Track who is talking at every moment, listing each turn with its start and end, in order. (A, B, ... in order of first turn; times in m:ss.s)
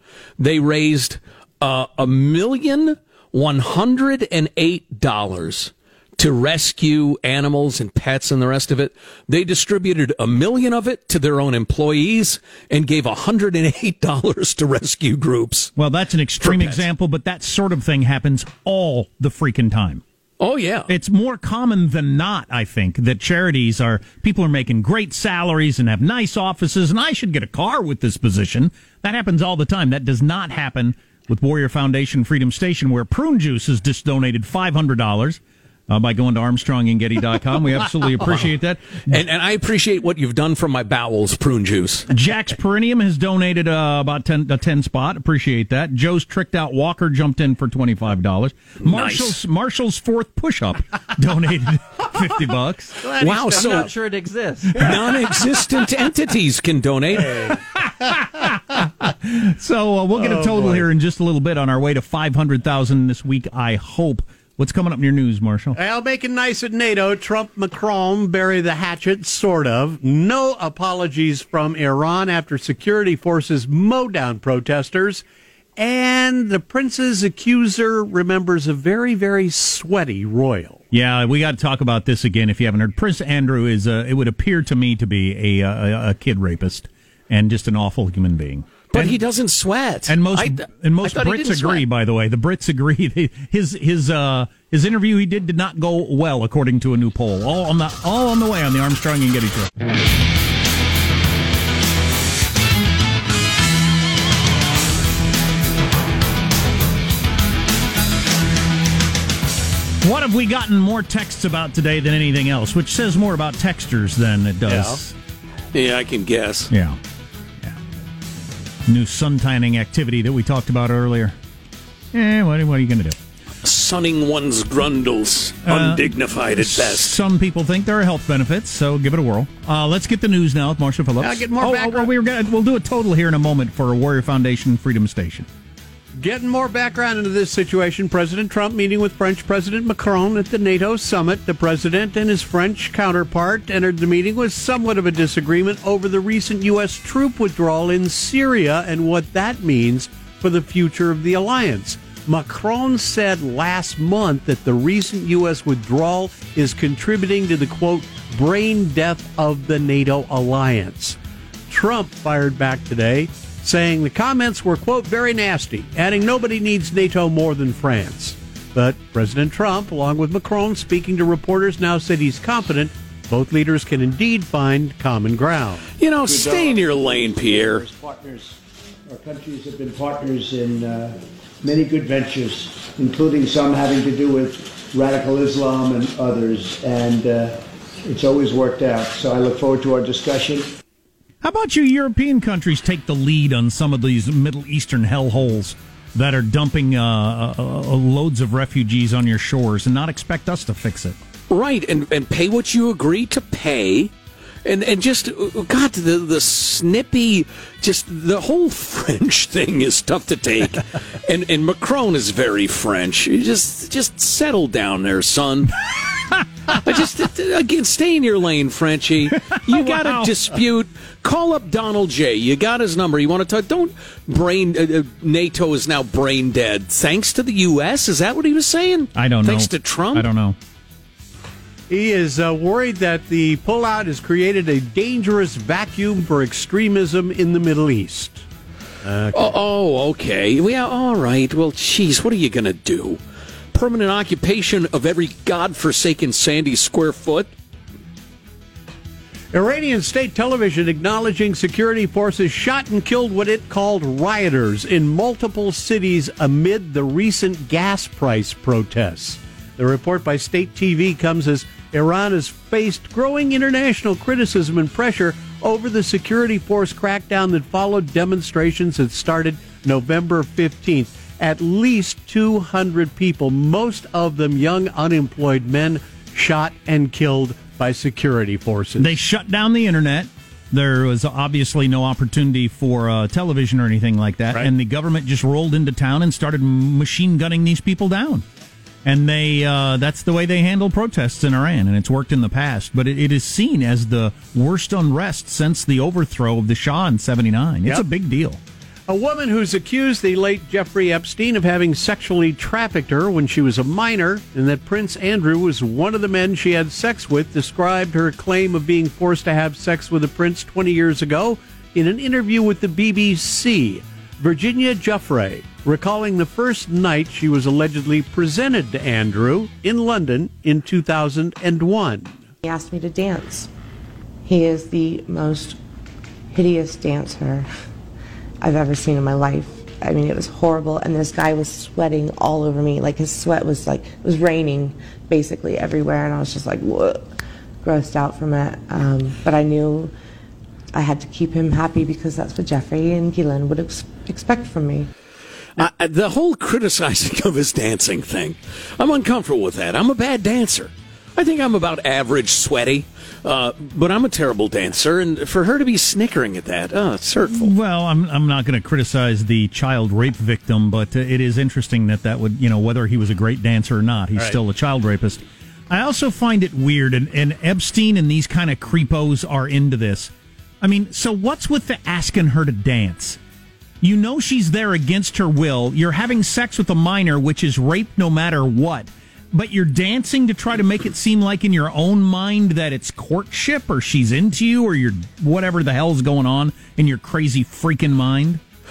0:00.4-0:15.7 A
0:15.8-0:20.0 B
0:16.4-0:16.8 A
0:20.4-0:20.9 A
0:20.9-0:39.2 B
0:39.1-0:42.1 A
0:42.1-0:53.1 B
0:48.8-0:49.4 A
0:53.1-0:57.6 A
0:53.2-0:54.7 C
0:57.8-1:05.8 B
1:00.2-1:00.9 C
1:05.7-1:15.2 C
1:15.8-1:20.8 C
1:20.9-1:29.2 B
1:28.9-1:31.8 A
1:30.1-1:39.7 B
1:50.0-1:55.1 B
1:54.7-1:55.0 C
1:55.7-1:56.7 A
1:56.7-1:57.0 B
1:58.9-2:01.4 B
2:02.1-2:03.2 B
2:03.6-2:07.2 A
2:05.6-2:15.5 B
2:11.2-2:12.1 C
2:16.2-2:41.2 C
2:41.7-2:55.9 C
2:56.0-2:57.8 A
2:56.2-3:10.7 D
3:11.4-3:21.2 B
3:21.5-3:24.1 A
3:24.6-3:35.8 A
3:36.7-3:50.3 A
3:39.5-3:40.3 B
3:49.2-3:50.6 B
3:51.9-3:58.4 C
3:59.0-3:59.6 C
3:59.3-4:03.2 A
4:03.7-4:07.5 A
4:09.5-4:39.2 C
4:39.0-4:48.4 B
4:49.0-4:58.6 B
4:59.1-5:22.4 C
5:22.6-5:23.7 E
5:24.4-5:25.8 E
5:26.5-5:27.7 E
5:28.6-5:40.1 E
5:40.9-5:45.1 E
5:45.8-5:57.7 A
5:57.5-6:13.4 B
6:14.0-6:28.6 B